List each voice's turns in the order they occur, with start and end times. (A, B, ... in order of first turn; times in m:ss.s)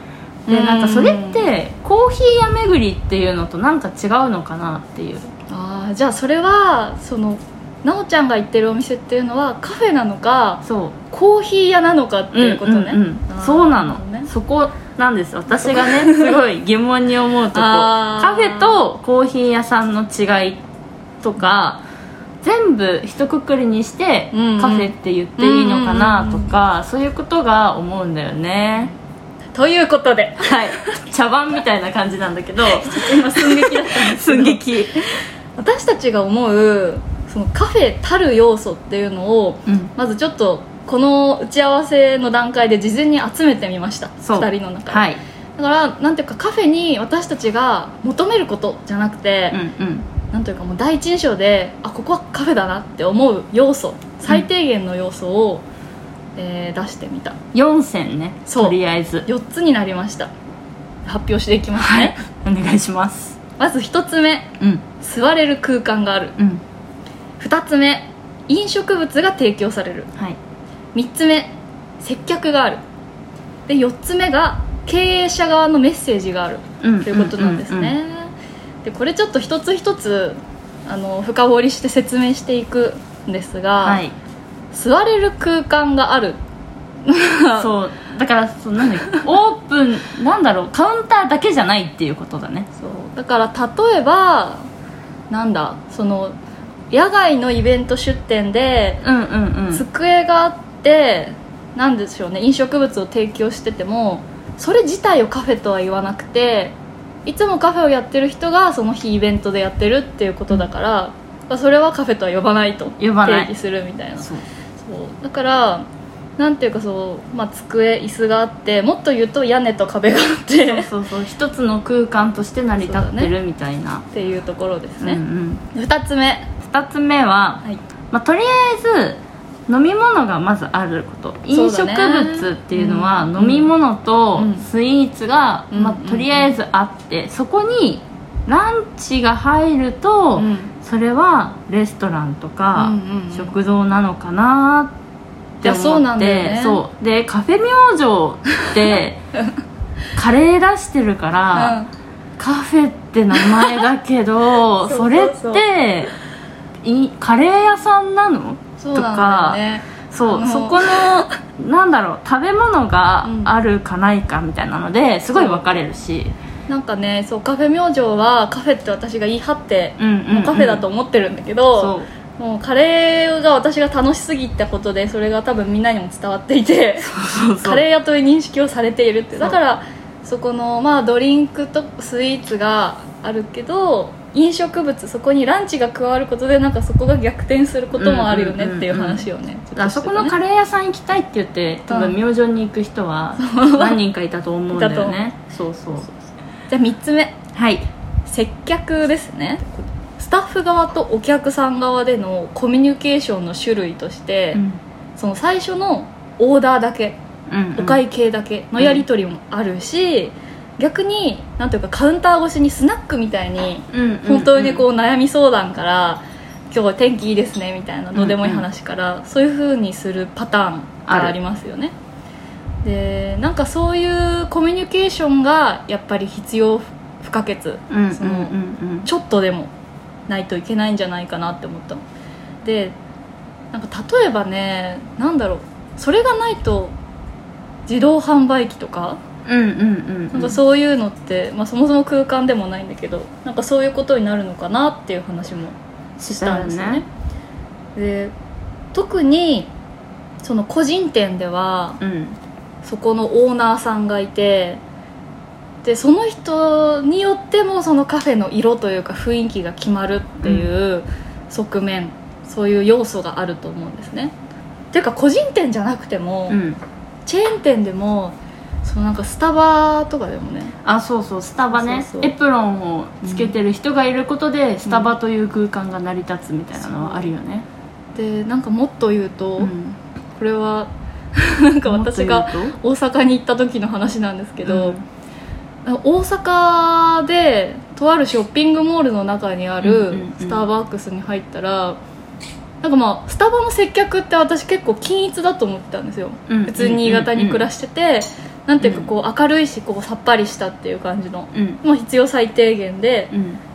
0:00.5-0:01.5 A
0:00.5-0:05.3 B
0:05.5-0:14.3 A
0:10.6-0:11.0 B
0:12.3-0:20.6 B
0:15.6-0:16.4 A
0:17.5-0:18.8 A
0:21.2-0:21.8 B
0:22.4-0:28.9 B
0:24.3-0:26.5 A
0:29.6-0:31.0 A
0:30.4-0:35.0 B
0:32.7-0:45.1 A
0:44.2-0:45.2 B
0:45.6-0:49.6 A
0:49.5-0:50.1 B
0:50.3-0:55.6 A
0:56.4-0:57.4 A
0:57.5-0:59.3 B
0:58.5-1:00.3 A
1:01.1-1:02.2 A
1:01.8-1:03.4 B
1:03.6-1:06.4 A
1:06.4-1:06.6 B
1:07.4-1:10.1 A
1:11.0-1:12.8 A
1:13.7-1:18.3 A
1:16.8-1:18.0 B
1:18.8-1:24.0 A
1:23.8-1:24.2 B
1:24.7-1:26.4 A
1:27.1-1:27.7 A
1:27.6-1:32.7 B
1:32.8-1:34.7 A
1:35.3-1:36.4 A
1:36.9-1:39.0 A
1:39.0-1:39.8 B
1:39.7-1:46.8 A
1:47.3-1:54.3 A
1:53.0-1:53.5 B
1:54.8-1:55.9 A
1:56.4-2:00.9 A
2:00.7-2:04.1 B
2:02.8-2:03.3 A
2:04.1-2:06.5 A
2:05.0-2:05.6 B
2:06.6-2:25.0 B
2:11.5-2:13.7 A
2:14.4-2:14.7 A
2:15.7-2:16.5 A
2:20.4-2:20.7 A
2:22.8-2:23.6 A
2:25.6-2:29.2 B
2:25.6-2:26.8 A
2:30.2-2:31.8 B
2:31.5-2:31.9 A
2:32.4-2:36.1 B
2:34.8-2:35.6 A
2:36.8-2:46.4 B
2:38.8-2:41.3 A
2:43.2-2:43.5 A
2:45.3-2:45.6 A
2:46.7-3:10.4 A
2:50.0-2:50.8 B
2:51.8-2:52.1 B
2:57.0-2:57.8 B
3:08.0-3:16.1 B
3:11.9-3:12.2 A
3:13.4-3:14.0 A
3:14.7-3:15.2 A
3:16.7-3:17.4 A
3:17.5-3:17.9 B
3:18.3-3:24.6 A
3:24.5-3:24.8 B
3:25.2-3:27.2 A
3:27.5-3:28.0 B
3:27.8-3:41.9 A
3:28.8-3:29.0 B
3:33.9-3:34.9 B
3:38.2-3:38.6 B
3:41.1-3:41.4 B
3:42.8-3:49.7 A
3:47.9-3:49.1 B
3:50.3-3:52.0 A
3:52.6-3:53.0 A
3:53.7-3:57.0 A
3:57.9-3:59.2 A
3:59.5-4:00.6 B
4:00.3-4:07.1 A
4:06.2-4:07.0 B
4:08.0-4:08.3 A
4:08.9-4:09.7 A
4:10.4-4:12.0 A
4:12.0-4:12.4 B
4:12.8-4:14.8 A
4:15.8-4:24.3 A
4:20.4-4:20.7 B
4:24.9-4:26.6 A
4:26.5-4:26.8 B
4:27.3-4:30.8 A
4:30.8-4:37.7 B
4:31.7-4:32.3 A
4:33.2-4:33.6 A
4:34.9-4:35.1 A
4:36.8-4:37.3 A
4:38.2-4:39.7 A
4:39.6-4:40.0 B
4:40.4-4:45.0 A
4:41.9-4:42.8 B
4:44.6-4:45.0 B
4:45.8-4:52.0 A
4:49.8-4:50.7 B
4:52.8-5:03.3 A
4:56.5-4:57.7 B
4:58.8-4:59.1 B
5:01.5-5:01.8 B
5:03.3-5:03.6 B